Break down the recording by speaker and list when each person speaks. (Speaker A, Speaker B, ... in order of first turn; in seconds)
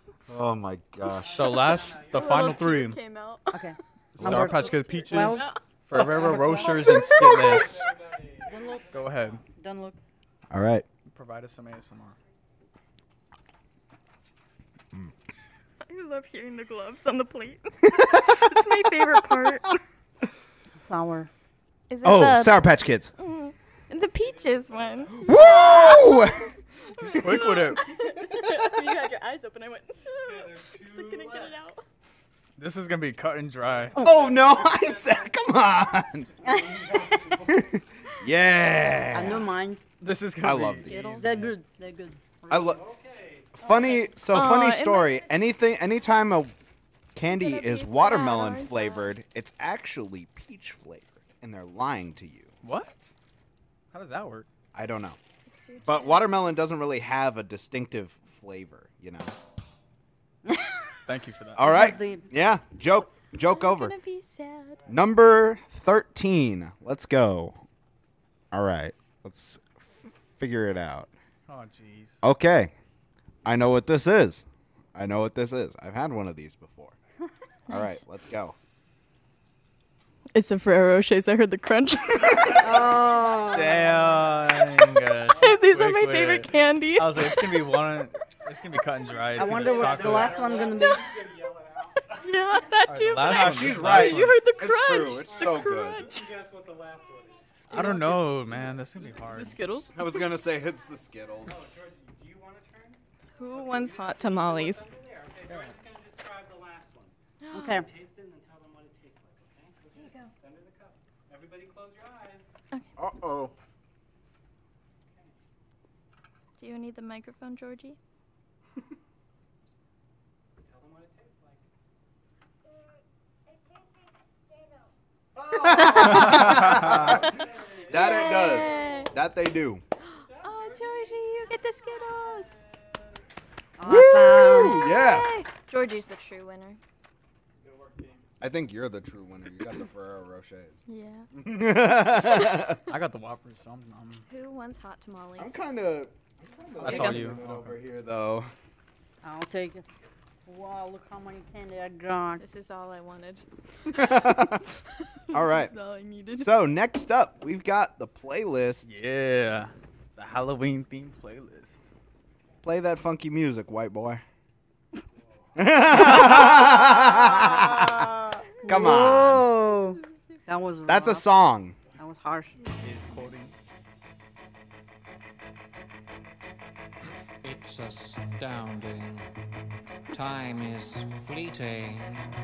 Speaker A: 0.3-1.6, 4.2-4.5, 10.5-10.8, 18.0-18.5, 22.0-23.1, 25.1-26.5, 34.0-36.3, 37.4-39.5, 40.4-41.4, 42.5-42.8, 43.6-46.5, 47.1-52.5, 54.7-55.2, 55.8-59.4, 61.5-63.9, 64.9-67.6, 68.5-69.7, 70.4-71.1, 72.2-72.7, 73.4-77.0, 77.7-78.5, 93.2-96.1, 99.9-101.9, 113.0-113.5, 125.3-129.8, 134.4-135.3, 138.4-140.8, 141.3-142.8, 145.4-148.5, 154.0-154.6, 155.3-155.7, 156.4-158.9, 162.6-164.2, 165.6-168.1, 168.6-169.5, 170.8-171.8
Speaker B: 1.0-2.7, 7.2-9.4, 24.2-25.3, 30.1-31.6, 33.6-35.3, 36.3-37.7, 42.7-44.1, 89.3-92.7, 95.2-98.7, 101.4-112.5, 120.6-121.6, 126.7-129.1, 130.1-131.5
Speaker C: 1.3-3.0, 4.2-7.8, 8.9-9.4, 11.1-12.2, 27.1-27.8, 32.6-33.9, 40.0-41.5, 52.6-53.1, 53.9-54.5, 61.0-61.8, 71.5-72.2, 83.3-90.5, 92.9-94.5, 97.7-99.6, 105.5-105.7, 137.6-138.2, 142.8-144.3, 146.8-147.8, 158.8-161.9, 165.9-166.7, 172.8-173.5
Speaker D: 2.1-3.7, 4.4-7.8, 15.8-19.8, 21.9-26.2, 27.0-31.8, 44.3-45.2, 47.3-49.1, 55.5-56.3, 63.4-64.8, 77.7-78.0, 80.3-82.7, 85.3-87.7, 92.2-96.2, 97.7-98.2, 99.0-100.4, 103.4-104.8, 107.4-107.8, 110.0-110.3, 116.6-118.0, 125.8-126.1, 127.1-129.1, 130.1-132.7, 133.8-136.8, 140.9-141.3, 144.3-145.6, 146.8-147.4, 152.4-156.6, 169.8-170.4
Speaker E: 3.5-6.9, 8.4-8.9, 9.4-10.0, 20.8-21.3, 36.4-36.8, 39.1-39.8, 41.1-42.7, 61.6-62.3, 82.5-84.3, 89.3-91.2, 107.5-107.8, 133.8-134.9, 149.2-149.8, 150.4-152.4, 168.6-171.3, 172.0-172.6
Speaker F: 177.4-179.3, 180.1-182.3